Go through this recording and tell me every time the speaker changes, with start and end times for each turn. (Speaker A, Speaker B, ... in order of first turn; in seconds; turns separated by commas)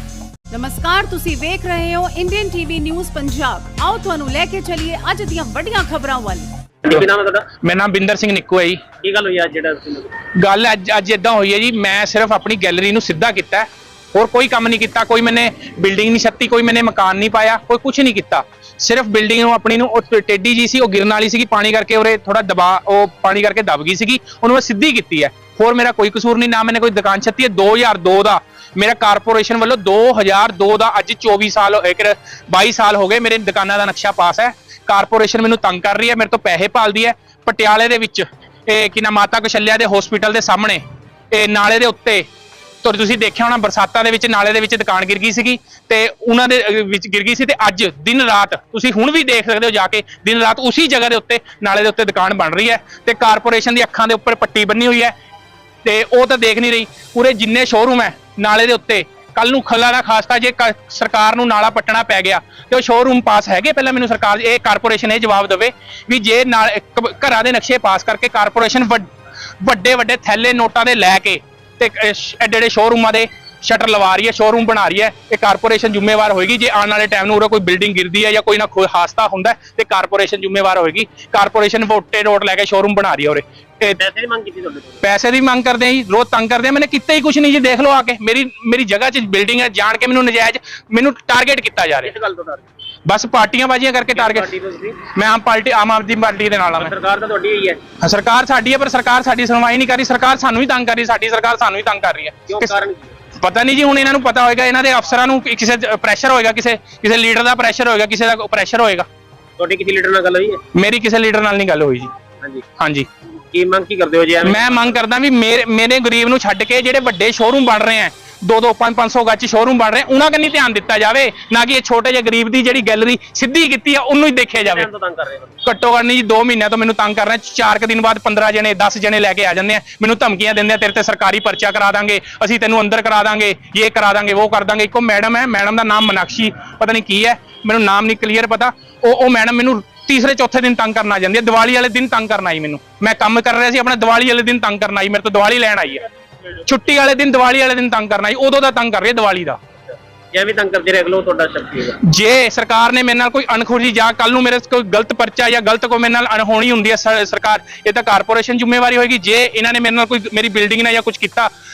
Speaker A: 0.5-6.5, Speaker B: 6.8-7.5, Speaker C: 7.6-8.9, Speaker B: 9.0-10.2, Speaker C: 10.2-40.8, Speaker C: 41.3-42.3, Speaker C: 42.8-55.1, Speaker C: 55.9-69.0, Speaker C: 69.6-84.0, Speaker B: 84.0-85.0, Speaker C: 85.0-92.1, Speaker B: 92.0-92.6, Speaker C: 93.1-96.9, Speaker B: 94.1-95.0, Speaker B: 96.8-97.9, Speaker C: 97.9-102.8, Speaker B: 102.5-103.2, Speaker C: 103.3-109.1, Speaker B: 109.6-110.6, Speaker C: 110.7-112.1, Speaker B: 112.4-112.7, Speaker C: 112.8-113.1, Speaker B: 113.5-115.0, Speaker C: 114.4-124.9, Speaker B: 124.5-125.5, Speaker C: 125.7-146.0, Speaker C: 146.7-149.6, Speaker B: 149.9-152.0, Speaker C: 152.0-161.5